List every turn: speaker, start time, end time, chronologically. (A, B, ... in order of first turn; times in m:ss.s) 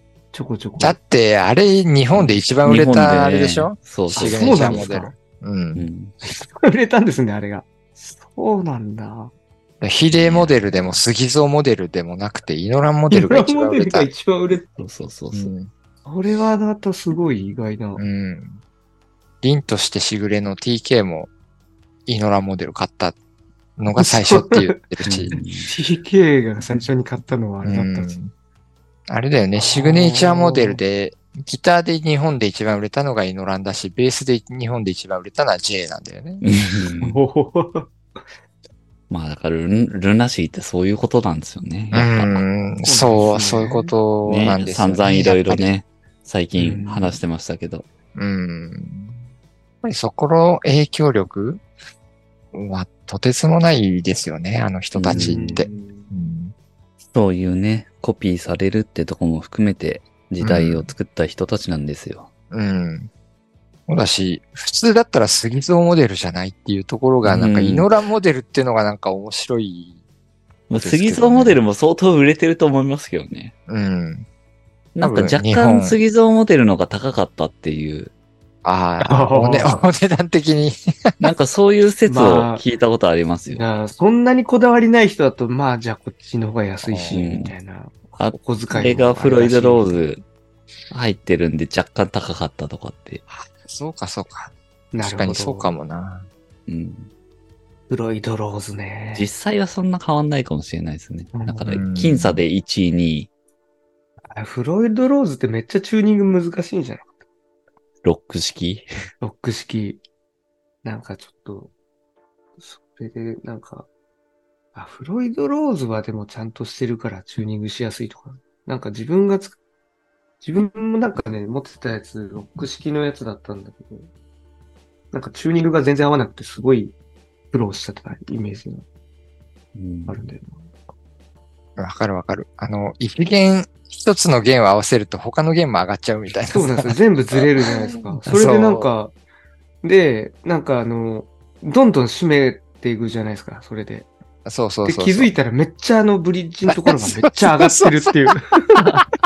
0:00.3-0:01.0 A
0:00.8-0:05.9 B
0:02.1-0:04.9 C
0:04.1-0:05.1 A
0:05.8-0:06.1 C
0:06.2-0:09.3 A
0:09.8-0:14.1 B
0:10.1-0:11.0 C
0:13.1-0:14.8 A
0:14.8-0:15.5 C
0:15.3-0:15.7 B
0:16.0-0:18.0 A
0:18.0-0:18.6 B
0:19.4-0:21.3 B
0:22.1-0:23.2 B
0:23.8-0:25.4 B
0:24.0-0:24.8 A
0:25.1-0:25.7 C
0:25.3-0:28.2 A
0:27.6-0:28.3 B
0:29.1-0:36.4 B
0:29.6-0:30.8 A
0:36.4-0:37.2 C
0:37.0-0:37.9 A
0:39.1-0:42.4 C
0:41.9-0:45.7 B
0:42.8-0:43.9 A
0:44.3-0:47.9 C
0:46.6-0:47.2 A
0:48.2-0:49.2 B
0:49.8-0:51.6 B
0:52.5-0:56.6 B
0:54.9-0:55.6 C
0:55.1-0:56.1 A
0:57.1-1:02.3 C
1:00.4-1:00.9 B
1:02.5-1:03.1 B
1:03.9-1:10.0 B
1:07.2-1:07.9 C
1:10.7-1:13.5 C
1:10.8-1:11.6 B
1:13.7-1:14.3 B
1:15.0-1:18.1 C
1:15.0-1:16.0 B
1:18.6-1:21.2 B
1:19.0-1:19.7 A
1:21.2-1:23.7 C
1:22.1-1:22.6 A
1:23.5-1:30.0 A
1:26.9-1:27.2 B
1:27.1-1:27.5 C
1:28.2-1:30.2 C
1:30.9-1:33.2 C
1:33.3-1:36.3 B
1:34.9-1:35.7 A
1:36.7-1:37.1 C
1:37.9-1:39.3 A
1:39.2-1:43.3 C
1:41.3-1:41.8 A
1:41.7-1:42.4 B
1:44.3-1:47.1 A
1:48.0-1:48.9 C
1:49.2-1:50.0 A
1:50.8-1:51.7 A
1:52.6-1:53.9 A
1:54.8-1:59.6 A
2:00.4-2:04.1 A
2:05.1-2:07.0 A
2:07.5-2:08.8 A
2:09.8-2:10.2 C
2:10.1-2:10.7 A
2:11.8-2:18.9 B
2:16.5-2:19.1 A
2:19.8-2:24.1 A
2:24.4-2:25.3 B
2:24.8-2:28.9 A
2:26.7-2:29.0 B